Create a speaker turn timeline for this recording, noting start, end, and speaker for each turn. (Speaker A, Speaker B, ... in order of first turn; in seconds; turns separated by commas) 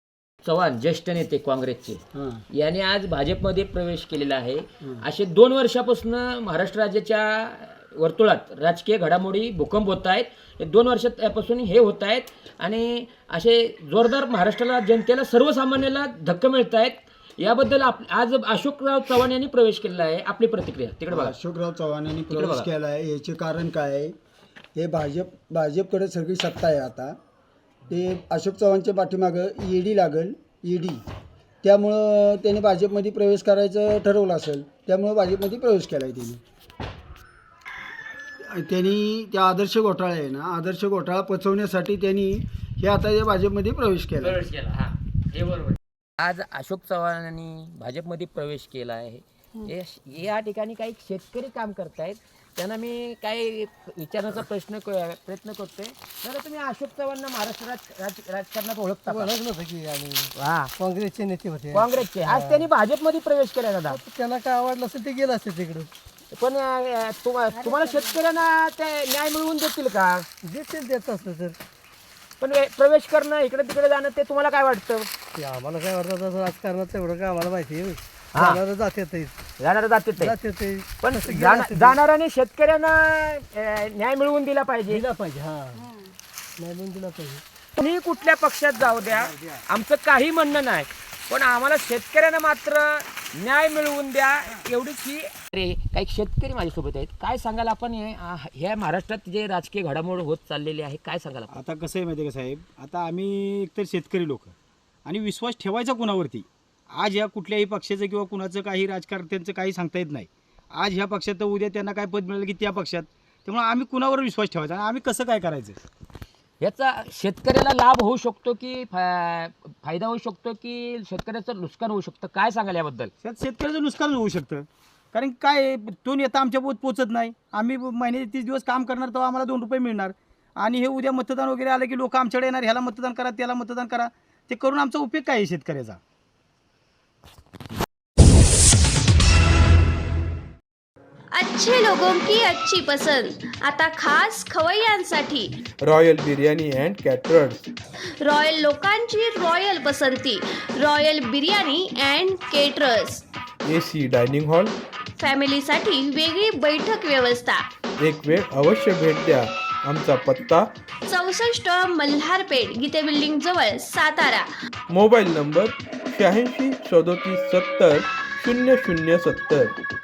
Speaker A: 0.4-21.3, Speaker B: 2.1-2.4, Speaker B: 21.1-24.1, Speaker A: 22.3-22.7, Speaker B: 24.7-27.1, Speaker B: 27.9-31.0, Speaker B: 31.6-36.4, Speaker B: 38.5-44.4, Speaker A: 44.2-59.4, Speaker C: 59.1-62.4, Speaker A: 60.3-60.7, Speaker A: 61.7-64.0, Speaker C: 64.0-65.9, Speaker A: 66.3-70.3, Speaker C: 70.4-71.6, Speaker A: 72.4-75.1, Speaker C: 75.3-79.3, Speaker A: 78.3-78.6, Speaker A: 79.6-80.4, Speaker C: 80.2-81.9, Speaker A: 81.0-85.0, Speaker C: 84.9-85.8, Speaker C: 86.6-87.4, Speaker A: 87.8-101.5, Speaker D: 101.5-104.5, Speaker D: 105.0-115.8, Speaker A: 116.6-123.1, Speaker D: 123.2-136.0, Speaker E: 141.3-145.6, Speaker F: 145.8-147.7, Speaker E: 148.0-153.2, Speaker F: 153.6-154.7, Speaker E: 155.2-157.6, Speaker F: 158.0-160.7, Speaker E: 161.1-164.5, Speaker F: 164.9-169.7